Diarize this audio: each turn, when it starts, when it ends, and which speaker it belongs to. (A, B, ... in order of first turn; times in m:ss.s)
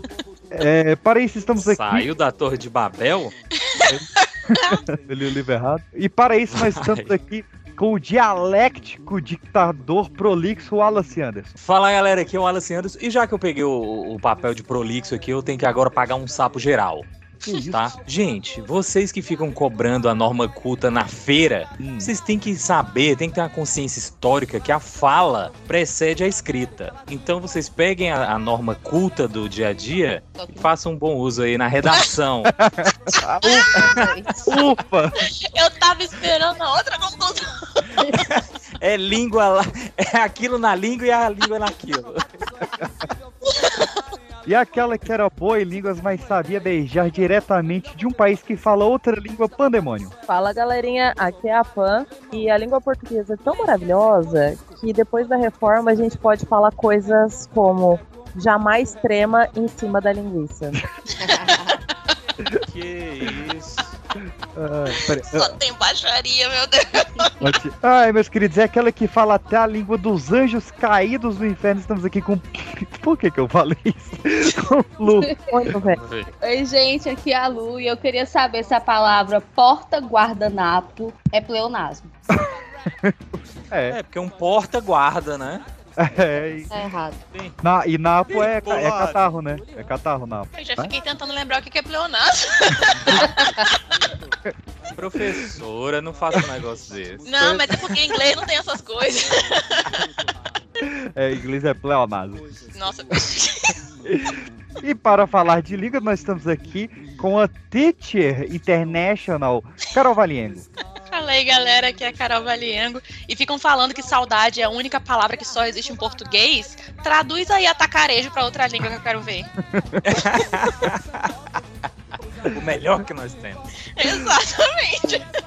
0:00.5-0:02.1 A
0:01.6-0:03.3 B
0:03.6-0:04.8 C
0:03.9-0:11.6 A
0:06.5-0:07.1 B
0:11.6-0:32.5 B
0:17.4-0:17.9 A
0:21.8-0:22.1 A
0:30.4-0:30.7 D
0:32.5-0:33.8 A
0:33.4-0:33.7 C
0:33.7-0:34.4 D
0:34.4-0:35.2 A
0:35.2-0:37.9 C
0:38.2-0:42.3 B
0:43.4-0:43.9 C
0:44.4-0:50.1 A
0:50.3-1:00.8 E
1:01.3-1:01.8 D
1:02.6-1:04.0 B
1:04.6-1:05.6 A
1:05.0-1:07.3 C
1:07.4-1:15.3 A
1:15.1-1:15.4 D
1:15.5-1:16.0 E
1:15.9-1:16.3 B
1:16.4-1:22.1 D
1:23.7-1:24.0 A
1:23.9-1:25.6 B
1:26.0-1:26.7 A
1:26.7-1:27.2 D
1:27.6-1:30.9 A
1:28.3-1:29.2 B
1:30.6-1:33.8 C
1:33.1-1:33.3 A
1:35.0-1:37.2 B
1:37.2-1:39.9 C
1:37.4-1:38.0 A
1:40.8-1:42.4 A
1:42.7-1:43.8 C
1:44.0-1:50.7 A
1:51.1-1:59.5 C
1:59.7-2:00.2 A
2:00.1-2:01.3 B
2:02.5-2:03.7 B
2:04.0-2:05.2 C